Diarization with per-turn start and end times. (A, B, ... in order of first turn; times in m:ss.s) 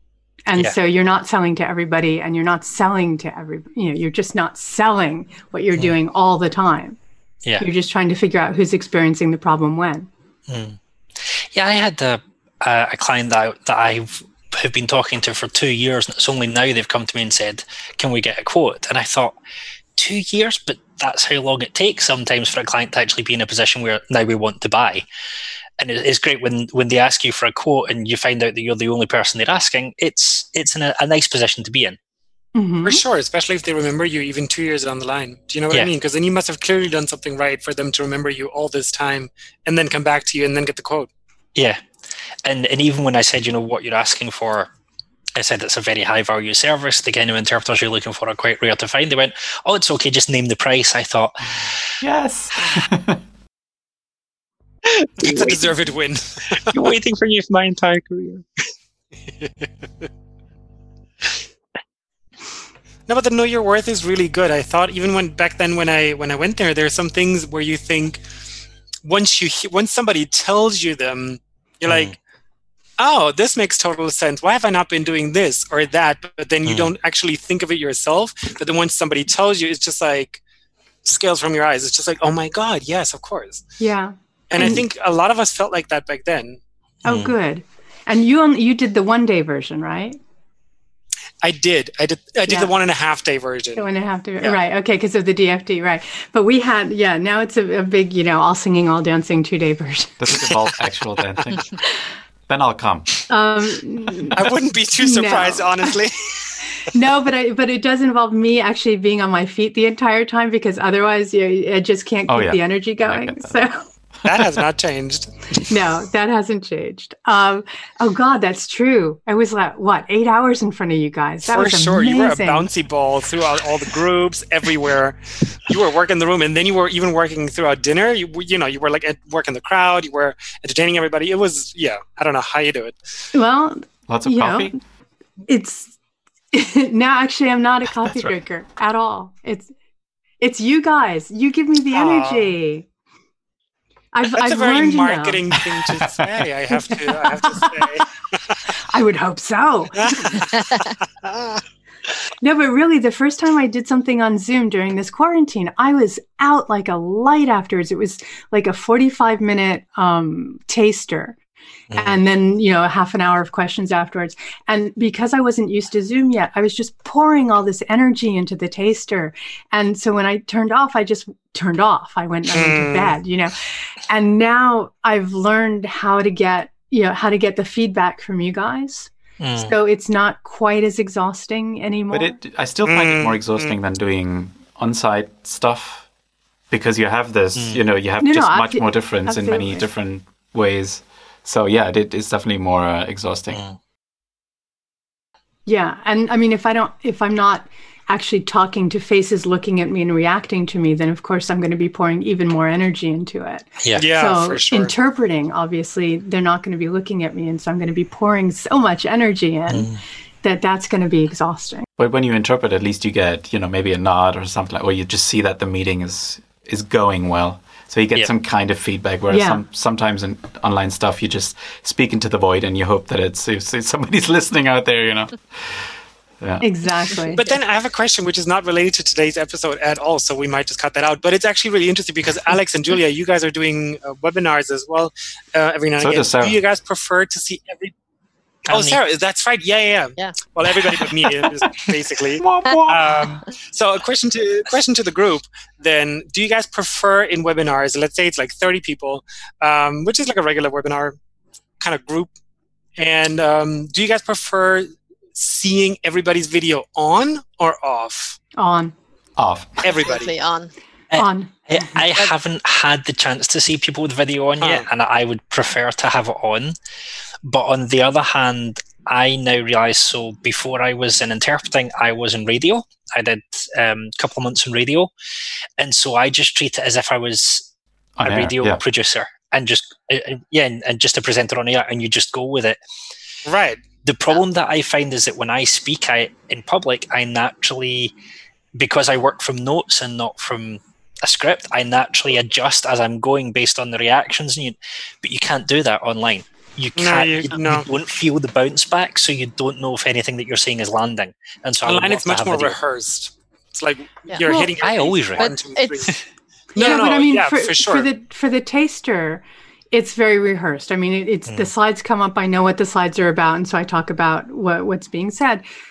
0:00.5-0:07.0 A
0:07.6-0:10.1 A
0:10.5-0:19.3 B
0:19.9-0:25.0 B
0:25.8-0:32.0 B
0:32.5-0:33.0 A
0:32.8-0:41.1 C
0:42.4-0:44.7 B
0:45.3-0:51.8 B
0:52.0-0:53.2 D
0:55.0-0:55.7 B
0:55.2-0:56.6 C
0:56.7-0:58.4 B
1:03.1-1:08.2 C
1:09.0-1:12.1 C
1:11.9-1:12.1 B
1:13.0-1:20.4 C
1:16.6-1:16.9 B
1:21.0-1:23.6 C
1:23.8-1:24.8 A
1:24.5-1:26.6 C
1:27.0-1:30.2 A
1:27.0-1:27.3 B
1:31.4-1:33.9 C
1:32.4-1:32.7 A
1:33.8-1:40.6 A
1:40.2-1:41.8 D
1:42.5-1:43.2 D
1:43.3-1:45.9 A
1:44.3-1:46.5 C
1:46.8-1:53.8 A
1:52.3-1:53.6 D
1:54.2-1:55.6 C
1:55.6-2:02.7 A
2:01.5-2:13.0 C
2:13.3-2:14.8 A
2:14.1-2:14.8 D
2:15.5-2:16.0 A
2:16.5-2:19.7 A
2:18.0-2:18.4 D
2:20.4-2:22.8 A
2:21.9-2:22.5 C
2:24.1-2:25.4 A
2:24.3-2:28.6 C
2:25.8-2:26.3 D
2:26.7-2:28.0 A
2:28.8-2:30.5 A
2:30.0-2:31.6 C
2:32.4-2:41.4 A
2:41.9-2:42.2 B
2:41.9-3:02.4 A
2:52.5-2:53.2 C
2:59.4-2:59.7 B
3:02.1-3:06.0 D
3:02.8-3:03.7 C
3:06.7-3:13.6 D
3:07.6-3:07.8 B
3:08.2-3:09.8 A
3:13.5-3:13.8 B
3:15.6-3:29.9 A
3:24.0-3:24.9 C
3:29.7-3:30.0 B
3:30.4-3:31.9 A
3:32.0-3:46.7 D
3:39.3-3:39.6 A
3:46.6-3:47.4 A
3:47.3-3:57.9 C
3:56.0-3:56.6 D
3:58.7-3:59.0 B
3:58.7-4:11.2 C
4:02.4-4:03.3 D
4:11.8-4:12.3 C
4:13.0-4:18.4 C
4:18.6-4:18.9 A
4:19.4-4:20.0 D
4:19.8-4:20.3 C
4:19.9-4:20.7 E
4:21.1-4:26.7 B
4:21.1-4:22.0 A
4:24.6-4:24.9 C
4:27.4-4:35.1 B
4:35.8-4:37.7 B
4:38.2-4:38.8 D
4:38.2-4:42.8 B
4:43.4-4:43.8 C
4:44.0-4:48.1 B
4:48.8-5:02.8 B
4:57.0-4:57.8 C
5:01.8-5:06.1 C
5:04.3-5:04.7 E
5:04.8-5:05.5 B
5:05.4-5:06.1 E
5:06.8-5:08.1 C
5:06.8-5:15.6 A